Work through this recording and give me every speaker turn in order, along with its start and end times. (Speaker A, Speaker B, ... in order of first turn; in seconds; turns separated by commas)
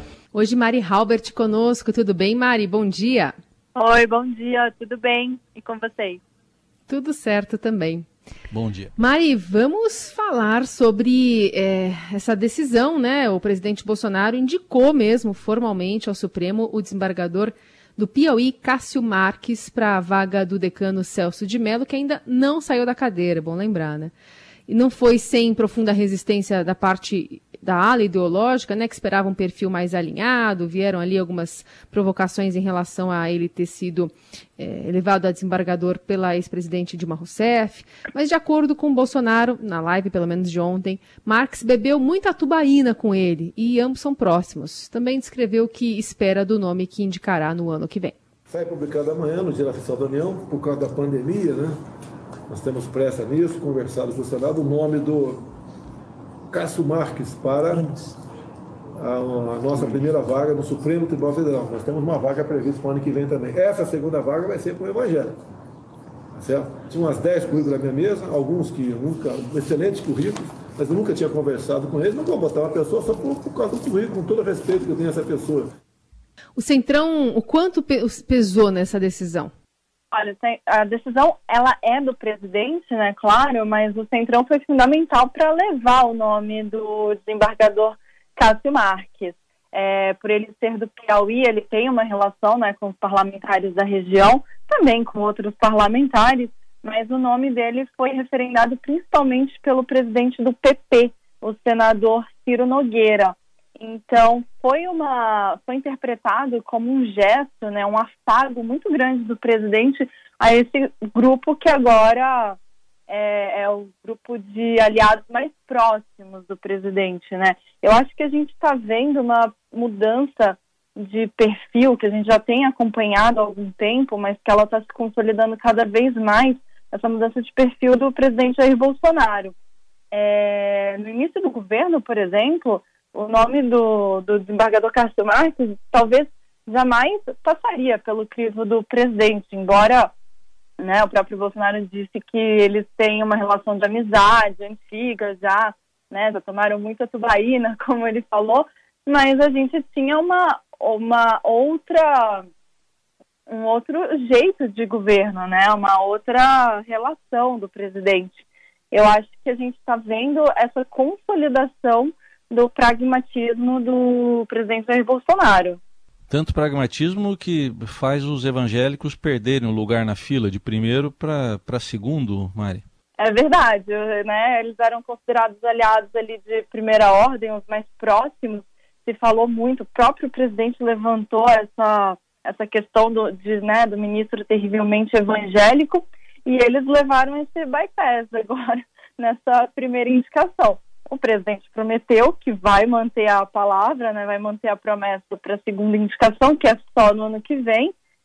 Speaker A: 0.3-3.3, Speaker B: 3.8-6.2, Speaker A: 6.9-8.1, Speaker C: 8.5-8.9, Speaker A: 9.0-24.1, Speaker A: 24.7-48.1, Speaker D: 48.5-51.8, Speaker D: 52.5-55.5, Speaker D: 56.5-58.0, Speaker D: 59.0-65.4, Speaker D: 66.3-75.7, Speaker A: 76.6-79.5, Speaker B: 80.1-129.5, Speaker B: 130.1-140.1, Speaker B: 140.8-152.4, Speaker B: 153.5-165.8, Speaker C: 166.3-172.8, Speaker B: 173.2-197.9